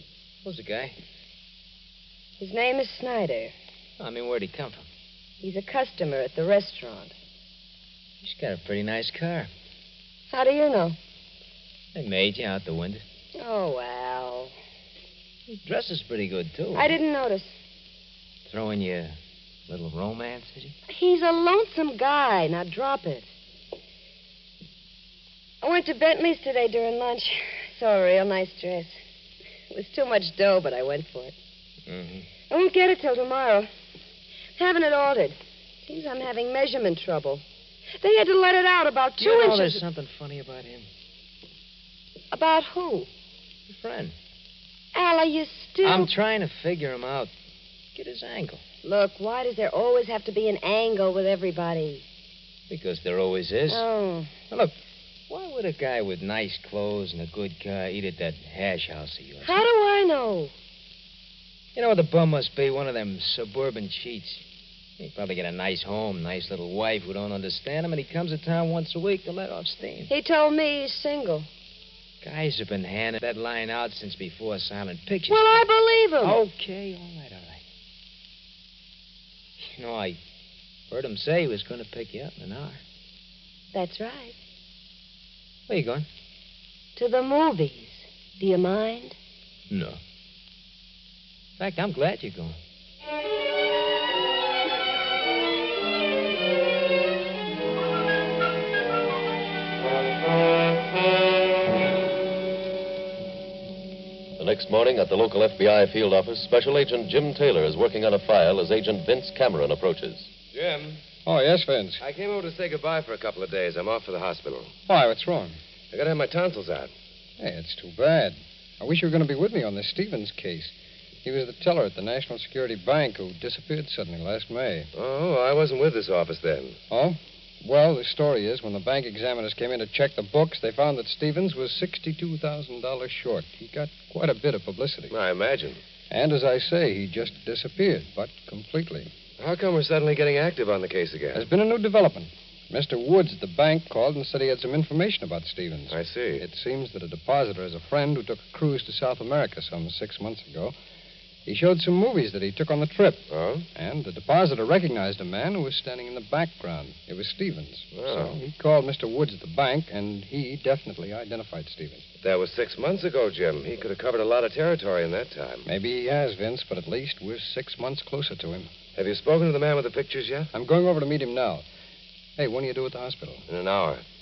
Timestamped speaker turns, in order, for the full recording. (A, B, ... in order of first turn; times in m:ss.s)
0:00.4-0:00.9 A
0:02.4-0:03.5 B
0:04.0-0:04.8 A
0:05.4-0:07.1 B
0:08.2-0:09.5 A
0:10.3-0:11.0 B
0:11.9-0:13.0 A
0:13.4-0:14.5 B
0:15.5-0:16.9 A
0:16.7-0:17.5 B
0:18.5-0:19.2 A
0:19.7-0:20.7 A
0:20.9-0:23.3 B
0:25.6-0:29.0 B
0:29.7-0:31.3 B
0:31.9-0:32.3 A
0:32.5-0:33.7 B
0:34.6-0:37.4 B
0:38.0-0:39.8 B
0:39.2-0:40.9 A
0:42.3-0:43.1 B
0:43.7-0:44.2 A
0:44.9-0:46.1 B
0:45.8-0:47.3 A
0:48.0-0:48.6 A
0:48.8-0:52.0 B
0:52.7-0:53.8 A
0:53.7-0:54.3 B
0:55.3-0:59.6 A
0:59.4-1:00.5 B
1:01.7-1:04.4 A
1:05.0-1:10.1 A
1:10.1-1:11.5 B
1:12.2-1:15.6 A
1:15.3-1:16.4 B
1:16.2-1:17.6 A
1:19.6-1:20.2 A
1:20.9-1:22.8 A
1:23.7-1:24.4 B
1:25.7-1:26.1 A
1:27.0-1:29.2 B
1:29.7-1:30.0 A
1:31.6-1:32.6 A
1:44.4-1:50.3 C
1:50.5-1:51.0 D
1:51.3-1:52.0 E
1:52.0-1:54.7 D
1:54.9-1:55.6 E
1:55.9-1:56.9 D
1:57.4-2:00.7 E
2:01.2-2:04.9 E
2:04.9-2:06.8 D
2:06.9-2:15.1 E
2:15.1-2:15.8 D
2:16.1-2:19.1 E
2:19.4-2:21.4 D
2:21.3-2:30.7 E
2:25.9-2:26.4 D
2:31.5-2:42.0 E
2:33.3-2:33.7 D
2:37.9-2:38.4 D
2:42.2-2:45.7 D
2:45.7-2:48.7 E
2:49.0-2:50.5 D
2:50.5-2:51.6 E
2:52.4-2:53.4 E
2:53.5-2:54.0 D